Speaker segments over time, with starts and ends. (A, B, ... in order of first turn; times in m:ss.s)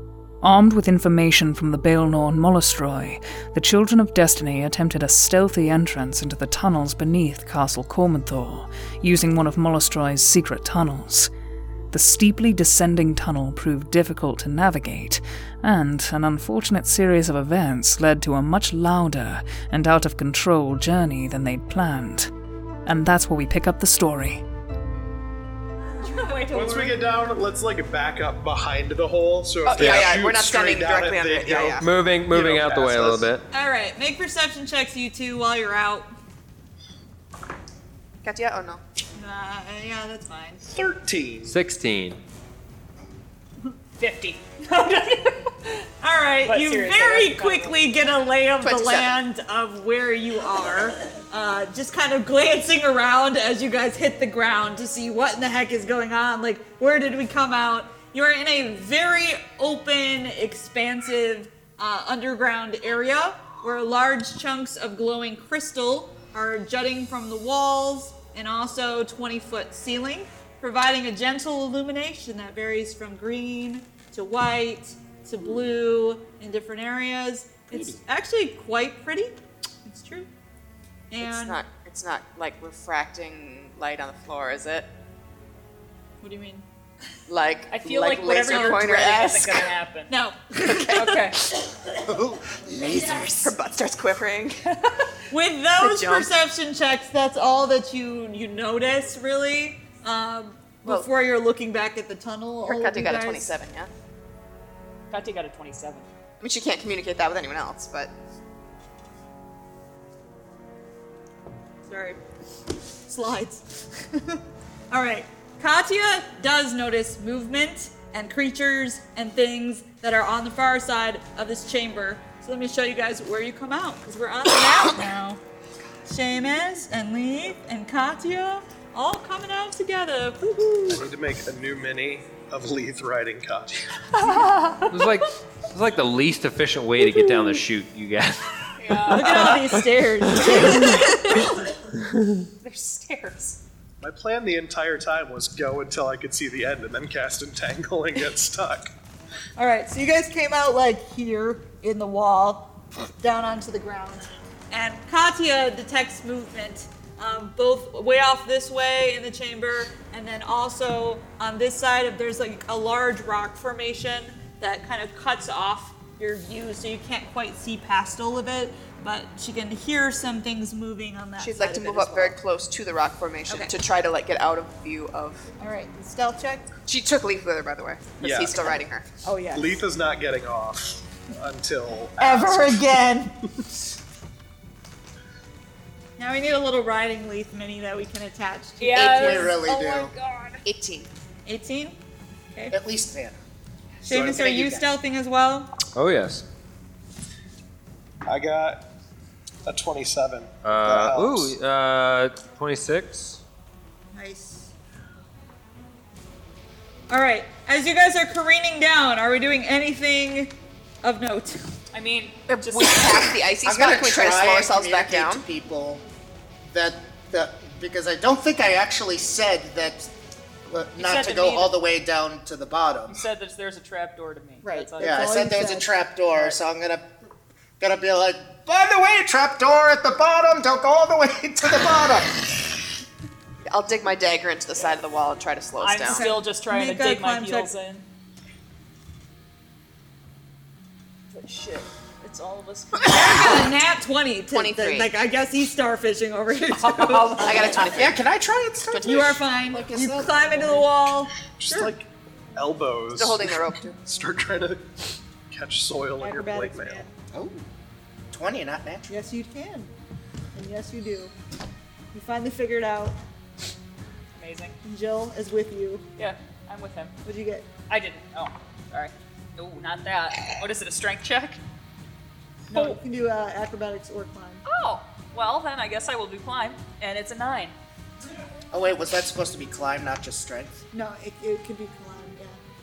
0:00.4-0:11.3 A
0:11.9-0:22.3 A
0:22.9-0:24.4 A
0:26.0-0:27.0 B
0:26.5-0:33.3 C
0:29.6-0:31.9 D
0:29.8-0:30.1 E
0:31.8-0:33.4 E
0:33.5-0:36.1 B
0:38.2-0:38.8 D
0:39.2-0:40.6 B
0:40.7-0:41.6 C
0:41.5-0:42.2 E
0:44.0-0:45.9 F
0:46.0-1:20.3 B
0:46.4-0:47.8 F
0:48.6-0:49.2 D
1:17.7-1:18.0 G
1:21.1-1:21.6 B
1:21.2-1:24.9 D
1:26.2-1:26.6 B
1:27.3-1:29.7 D
1:27.7-1:30.1 F
1:30.1-1:31.3 B
1:30.9-1:31.4 F
1:31.9-1:33.6 G
1:33.4-1:34.6 D
1:34.7-1:35.0 F
1:35.3-1:43.5 B
1:35.8-1:36.3 D
1:42.6-1:43.9 D
1:45.1-1:46.1 F
1:46.4-1:48.1 D
1:51.9-1:52.2 B
1:53.1-2:05.4 B
2:06.1-2:11.0 B
2:10.9-2:13.8 C
2:14.2-2:15.0 F
2:14.9-2:19.9 E
2:18.8-2:19.6 F
2:19.1-2:21.4 B
2:20.6-2:21.6 F
2:22.6-2:23.6 F
2:24.0-2:28.9 C
2:29.6-2:52.4 B
2:51.4-2:55.5 D
2:53.5-2:53.7 B
2:55.6-2:56.6 B
2:56.9-2:59.1 D
2:58.2-2:58.6 C
2:59.2-2:59.8 B
2:59.5-3:03.0 C
3:02.2-3:03.4 B
3:06.2-3:09.6 B
3:08.8-3:10.6 F
3:09.0-3:10.1 G
3:10.6-3:11.1 D
3:11.5-3:12.0 B
3:12.7-3:13.4 G
3:14.0-3:15.7 B
3:14.0-3:14.9 G
3:15.9-3:16.4 E
3:18.3-3:18.8 C
3:19.7-3:21.6 C
3:20.6-3:23.4 E
3:24.1-3:24.7 B
3:27.1-3:31.6 B
3:31.9-3:33.1 F
3:32.5-3:35.4 D
3:33.6-3:36.0 G
3:36.7-3:40.1 G
3:40.7-3:43.2 G
3:41.0-3:41.8 F
3:43.1-3:45.4 F
3:44.6-3:45.9 B
3:45.0-3:47.2 G
3:47.8-3:52.4 G
3:53.7-3:56.2 D
3:55.8-3:58.0 F
3:56.1-3:57.7 B
4:01.3-4:03.6 F
4:03.1-4:07.7 B
4:04.5-4:05.2 D
4:06.6-4:08.1 F
4:07.4-4:08.2 D
4:07.9-4:09.4 G
4:08.9-4:10.9 D
4:09.0-4:11.9 B
4:11.6-4:17.1 C
4:13.1-4:14.0 D
4:16.2-4:17.1 B
4:17.3-4:17.7 G
4:18.3-4:19.1 G
4:19.1-4:19.9 B
4:20.6-4:21.3 B
4:22.1-4:23.2 B
4:24.3-4:24.8 F
4:24.8-4:26.0 B
4:26.2-4:27.2 F
4:27.2-4:27.7 B
4:27.9-4:31.6 F
4:32.7-4:34.6 B
4:34.6-4:37.7 F
4:38.7-4:40.8 G
4:40.9-4:42.6 B